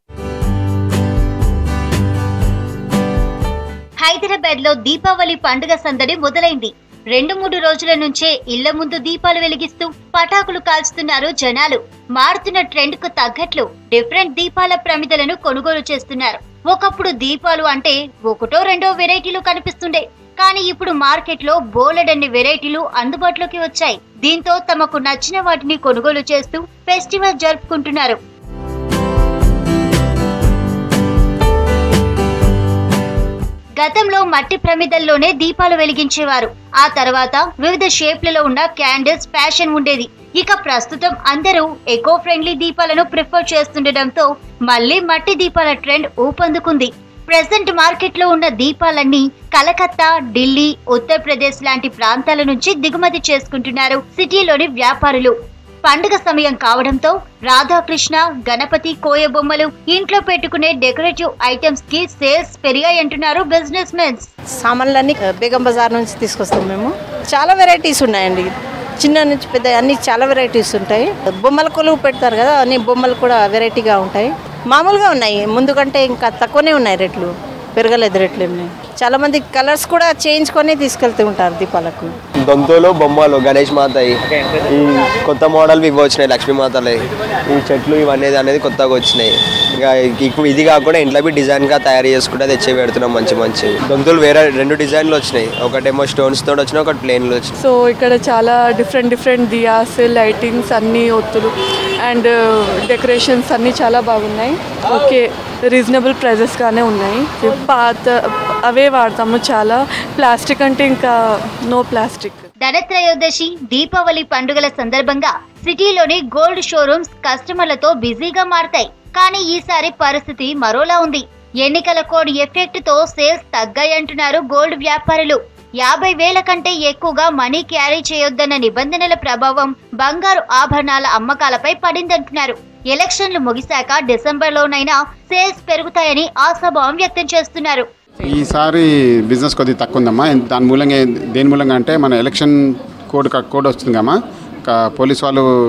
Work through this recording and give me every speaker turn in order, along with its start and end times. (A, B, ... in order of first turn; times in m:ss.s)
0:04.0-0:28.2 A
0:33.8-0:55.3 A
0:55.9-1:04.3 A
1:04.6-1:08.5 B
1:09.0-1:22.1 B
1:22.5-1:37.5 C
1:37.6-1:52.4 D
1:52.6-2:17.9 A
2:18.2-2:22.5 E
2:23.1-2:24.1 E
2:24.7-2:25.4 E